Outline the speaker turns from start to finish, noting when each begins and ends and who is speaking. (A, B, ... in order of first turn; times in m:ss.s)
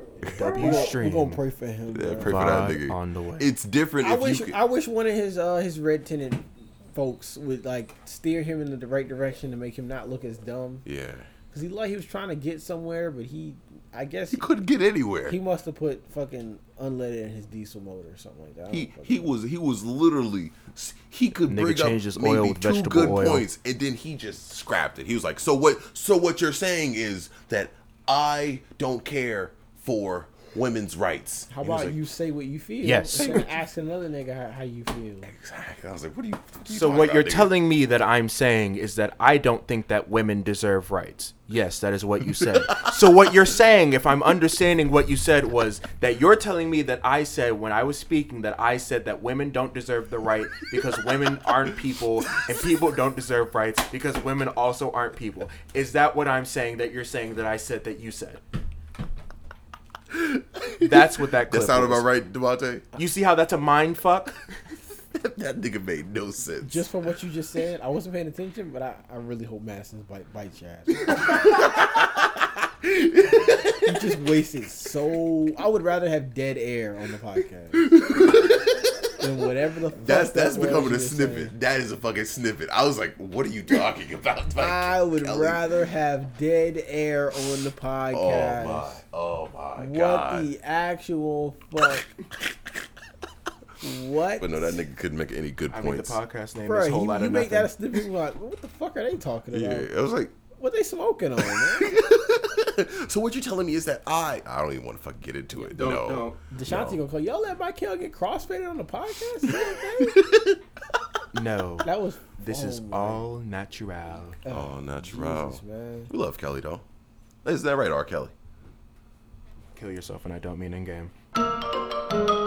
0:00.2-0:00.7 A
0:00.3-0:01.4 B
0:00.6-0:02.5 C
0:01.9-0:04.6 A
0:02.2-0:03.5 B
0:04.0-0:10.8 C
0:10.8-0:11.3 A
0:11.5-0:14.5 C
0:14.3-0:15.4 A
0:15.3-0:19.3 C
0:18.7-0:32.0 A
0:21.5-0:23.4 B
0:31.5-0:35.3 C
0:32.8-0:33.4 B
0:33.1-0:33.5 A
0:35.2-0:37.6 A
0:36.7-0:58.4 B
0:42.4-0:43.0 A
1:00.1-1:02.9 A
1:00.8-1:02.1 B
1:03.0-1:04.4 B
1:05.2-1:06.9 A
1:06.6-1:11.3 C
1:11.1-1:14.2 A
1:13.8-1:18.3 C
1:17.7-1:19.0 A
1:19.2-1:21.5 C
1:19.9-1:25.6 A
1:24.6-1:29.0 C
1:28.1-1:30.5 A
1:29.8-1:32.1 C
1:33.8-1:34.8 C
1:34.4-1:36.2 A
1:35.7-1:37.7 B
1:36.6-1:39.9 C
1:39.5-1:40.3 A
1:40.6-1:42.0 C
1:41.4-1:47.0 A
1:45.7-1:46.4 B
1:46.5-1:50.2 C
1:49.5-1:50.6 A
1:51.3-1:54.4 B
1:51.8-1:53.2 C
1:54.4-1:56.1 C
1:54.5-1:56.8 A
1:57.4-1:58.3 A
1:59.8-2:01.1 B